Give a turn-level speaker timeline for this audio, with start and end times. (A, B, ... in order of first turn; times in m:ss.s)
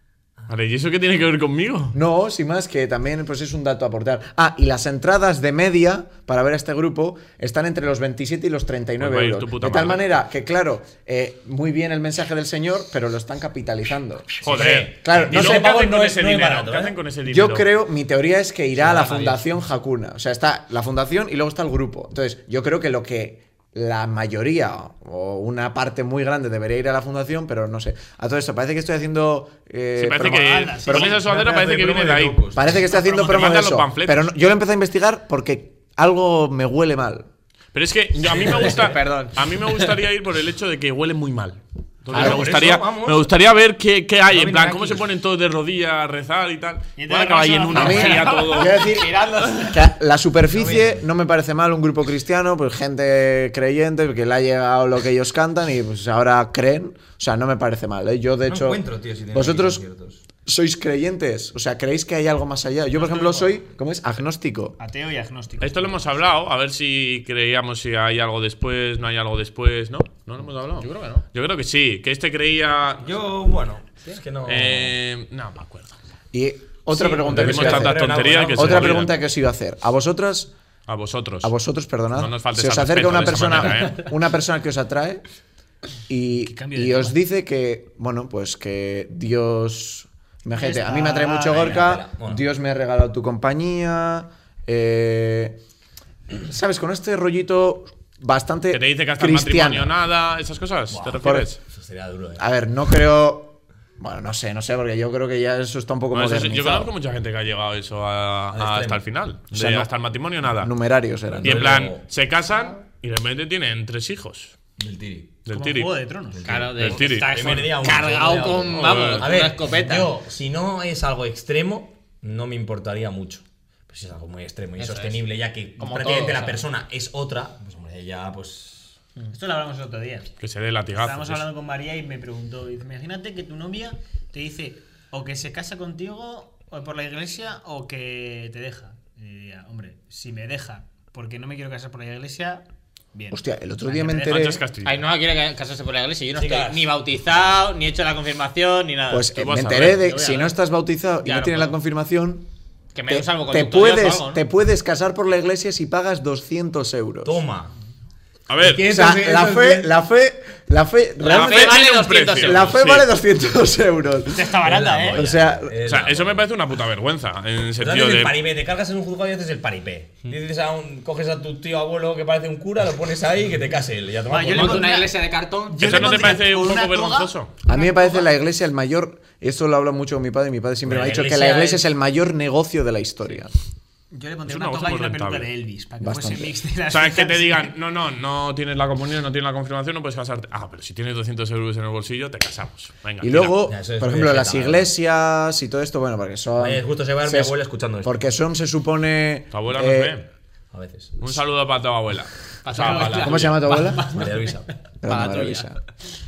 0:00.5-0:02.0 A
0:01.9-0:15.8 B
0:09.0-0:10.0 A
0:14.4-0:17.0 C
0:14.4-0:17.7 A
0:17.2-0:31.1 B
0:18.8-0:19.4 D
0:30.0-0:34.3 A
0:30.2-0:31.3 E
0:31.0-0:32.6 C
0:32.5-0:37.3 B
0:32.9-0:33.2 E
0:37.7-0:48.8 A
0:38.4-0:38.7 C
0:38.5-0:39.7 D
0:42.1-0:43.3 C
0:42.1-0:42.4 B
0:44.4-0:45.0 D
0:47.0-0:49.1 E
0:47.7-0:58.8 B
0:48.8-0:49.8 D
0:50.5-0:51.0 C
0:58.5-1:00.2 C
0:59.3-0:59.8 B
1:00.4-1:04.8 B
1:02.9-1:03.6 E
1:04.8-1:06.1 E
1:05.6-1:13.0 A
1:10.8-1:11.2 D
1:13.0-1:14.9 C
1:14.4-1:15.9 A
1:16.3-1:20.5 B
1:16.9-1:19.1 C
1:17.3-1:19.1 A
1:20.9-1:21.5 A
1:21.4-1:25.2 B
1:22.1-1:24.0 A
1:26.1-1:35.6 B
1:26.4-1:27.2 E
1:30.5-1:31.8 E
1:31.5-1:32.4 C
1:36.4-1:40.0 B
1:38.7-1:41.6 A
1:40.9-1:42.4 C
1:41.2-1:41.5 B
1:42.4-1:46.9 B
1:46.1-1:50.7 A
1:48.5-1:49.0 C
1:49.5-1:49.9 B
1:50.6-1:51.8 B
1:51.3-1:52.1 C
1:51.4-1:54.6 A
1:54.8-1:55.4 C
1:55.4-1:55.9 A
1:55.5-1:56.6 E
1:56.3-2:09.0 C
1:56.4-2:00.1 D
1:56.7-1:57.4 A
1:58.7-1:59.3 A
2:04.8-2:05.2 D
2:05.8-2:06.6 D
2:09.3-2:10.3 E
2:10.4-2:11.4 A
2:10.9-2:24.5 E
2:23.3-2:24.6 B
2:24.2-2:25.0 A
2:24.8-2:29.4 D
2:26.3-2:26.9 C
2:29.1-2:32.4 B
2:29.4-2:30.1 A
2:30.0-2:30.5 D
2:31.2-2:31.8 D
2:32.9-2:34.4 D
2:33.1-2:37.4 B
2:37.2-2:37.7 C
2:38.5-2:38.9 A
2:38.6-2:40.0 C
2:38.8-2:44.6 B
2:41.2-2:42.7 D
2:41.3-2:43.1 A
2:44.3-2:45.3 E
2:44.6-2:46.5 C
2:45.1-2:45.8 B
2:45.8-2:48.3 A
2:47.8-2:55.0 C
2:54.3-2:55.1 E
2:54.4-2:56.3 D
2:55.7-2:58.3 E
2:55.8-2:57.6 A
2:57.6-3:03.5 B
3:00.8-3:01.8 C
3:01.3-3:01.8 D
3:04.1-3:07.7 E
3:04.4-3:05.5 A
3:06.0-3:06.5 B
3:06.9-3:13.6 A
3:13.2-3:20.1 B
3:13.7-3:14.9 C
3:16.6-3:18.2 C
3:19.5-3:20.3 A
3:20.7-3:21.4 C
3:21.2-3:23.6 A
3:22.6-3:24.5 D
3:23.1-3:24.1 B
3:24.1-3:24.7 C
3:25.0-3:25.8 B
3:25.0-3:25.7 D